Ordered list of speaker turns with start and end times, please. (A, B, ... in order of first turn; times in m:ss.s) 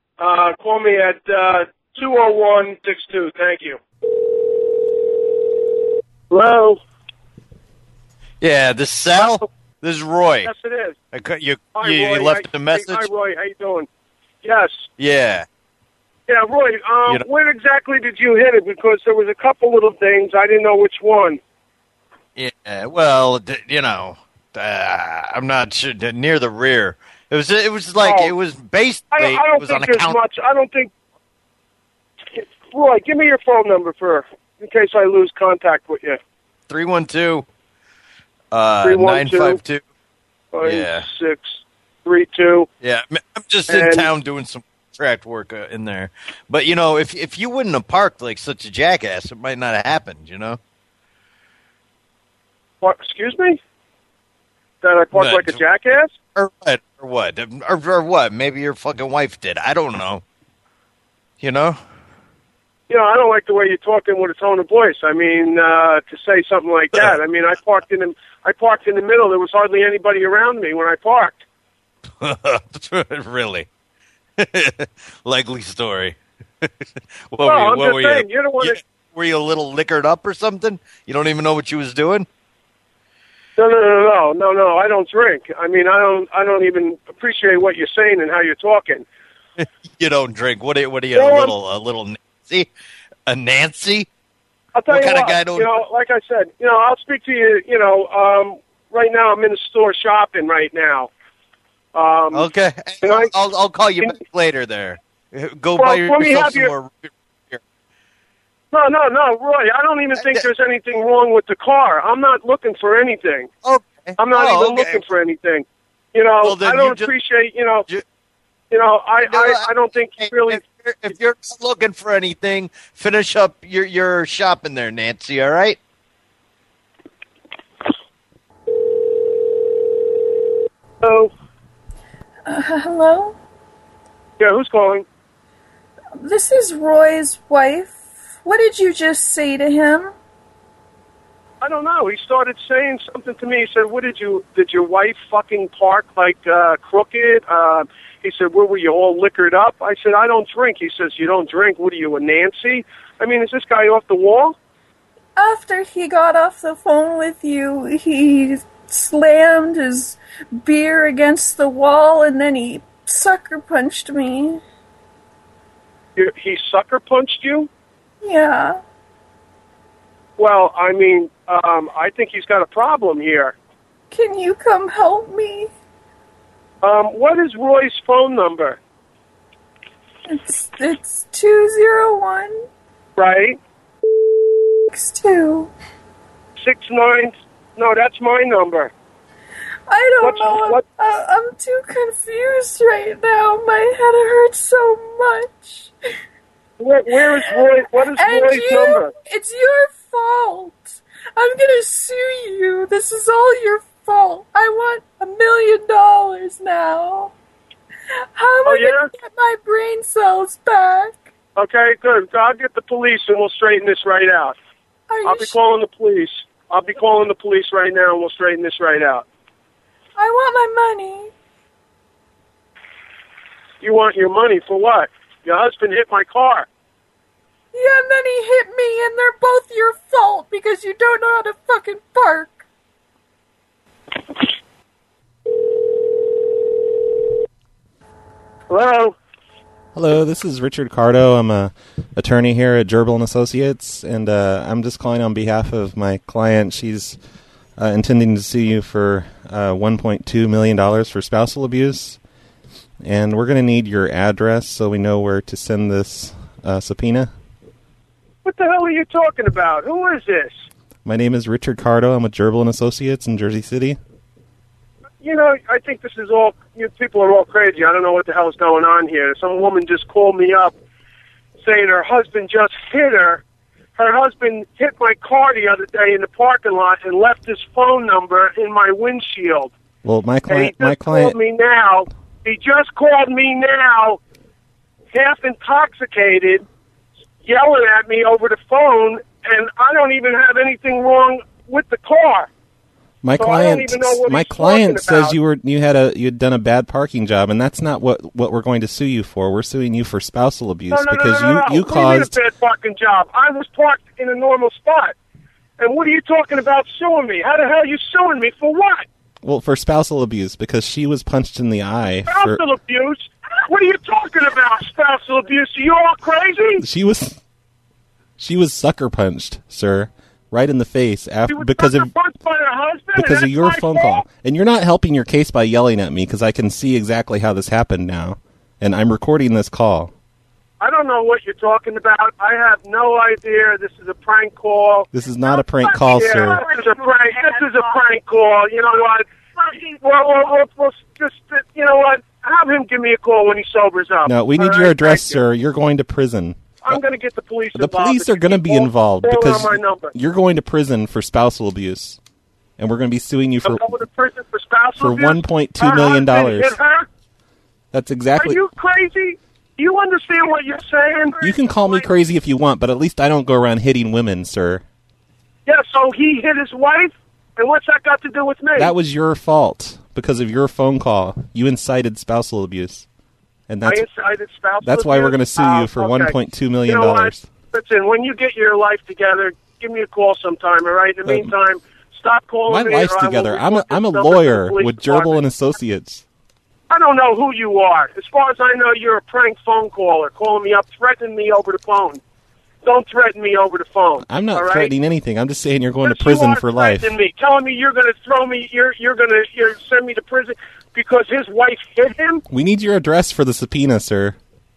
0:00.2-0:03.8 A
0:06.3-0:06.8 A
0:08.4-0:10.5 B
0:09.1-0:09.4 A
0:10.4-0:11.0 A
0:11.1-0:13.1 B
0:11.7-0:13.9 A
0:14.4-0:14.9 A
0:15.0-0:15.4 B
0:16.3-0:21.4 A
0:22.4-0:30.2 B
0:28.0-0:28.3 A
0:29.1-0:30.9 A
0:32.3-0:36.2 A
0:36.7-0:37.4 B
0:38.5-0:39.8 B
0:38.8-0:39.6 A
0:40.5-0:42.7 A
0:40.6-0:41.1 B
0:42.8-0:50.6 B
0:43.7-0:44.1 A
0:52.8-0:53.6 A
0:54.8-0:56.1 A
0:55.1-1:00.2 B
1:01.4-1:01.8 B
1:02.9-1:11.4 A
1:12.2-1:13.7 B
1:14.4-1:16.7 B
1:17.3-1:22.3 B
1:17.4-1:18.8 A
1:23.6-1:29.0 A
1:29.6-1:32.7 B
1:31.1-1:31.5 A
1:33.3-1:34.1 B
1:34.7-1:41.1 A
1:34.9-1:35.7 B
1:41.9-1:42.5 A
1:42.3-1:47.6 B
1:43.0-1:43.3 A
1:45.8-1:46.7 A
1:48.7-1:53.5 A
1:50.2-1:50.4 B
1:53.6-1:55.0 B
1:54.2-1:57.9 A
1:56.4-1:57.1 B
1:58.7-2:00.6 A
1:59.2-2:05.8 B
2:11.0-2:11.3 A
2:12.4-2:13.4 C
2:14.4-2:15.0 A
2:16.2-2:20.1 C
2:21.6-2:34.6 A
2:35.4-2:44.6 C
2:46.2-2:47.7 A
2:48.2-2:48.8 C
2:50.4-2:53.6 A
2:54.1-2:55.7 C
2:56.8-2:58.8 A
3:00.3-3:02.6 C
3:03.2-3:03.6 A
3:04.9-3:05.7 C
3:06.6-3:08.9 A
3:09.9-3:15.9 C
3:10.2-3:10.8 A
3:16.8-3:19.1 A
3:17.6-3:27.3 C
3:28.3-3:31.2 C
3:28.6-3:29.1 A
3:31.6-3:34.6 A
3:35.1-3:35.5 C
3:35.2-3:39.2 A
3:40.2-3:41.3 C
3:43.8-3:46.7 A
3:47.7-3:52.6 C
3:58.7-3:59.2 A
3:59.9-4:07.2 D
4:07.8-4:12.2 D
4:13.0-4:17.3 D
4:18.4-4:20.7 A
4:21.0-4:24.0 D
4:25.2-4:30.8 A
4:31.6-4:33.4 A
4:34.0-4:39.7 A
4:40.0-4:41.4 D
4:40.5-4:44.2 A
4:45.1-4:46.6 A
4:47.4-4:52.5 A
4:53.2-5:02.4 D
4:53.4-4:55.4 A
5:00.9-5:05.1 A
5:05.8-5:09.0 A
5:09.4-5:12.6 D
5:12.3-5:16.8 A
5:16.8-5:17.4 D
5:18.4-5:22.1 D
5:21.5-5:24.2 A
5:23.2-5:30.1 D
5:30.8-5:35.1 A
5:35.1-5:36.6 D
5:35.8-5:45.4 A
5:44.2-5:47.0 D
5:46.8-5:50.1 A
5:47.7-5:52.2 D
5:52.8-5:53.8 D
5:53.6-5:57.1 A
5:55.0-5:56.8 D
5:57.9-5:58.6 D
5:58.4-6:02.0 A
6:01.4-6:04.8 D
6:05.6-6:08.9 A
6:08.8-6:13.0 D
6:13.7-6:14.1 D
6:13.8-6:25.4 A
6:14.8-6:17.5 D
6:21.2-6:21.5 D
6:22.7-6:26.2 D
6:26.9-6:32.2 A
6:32.8-6:34.9 A
6:34.2-6:37.1 D
6:36.0-6:42.4 A
6:42.5-6:44.4 D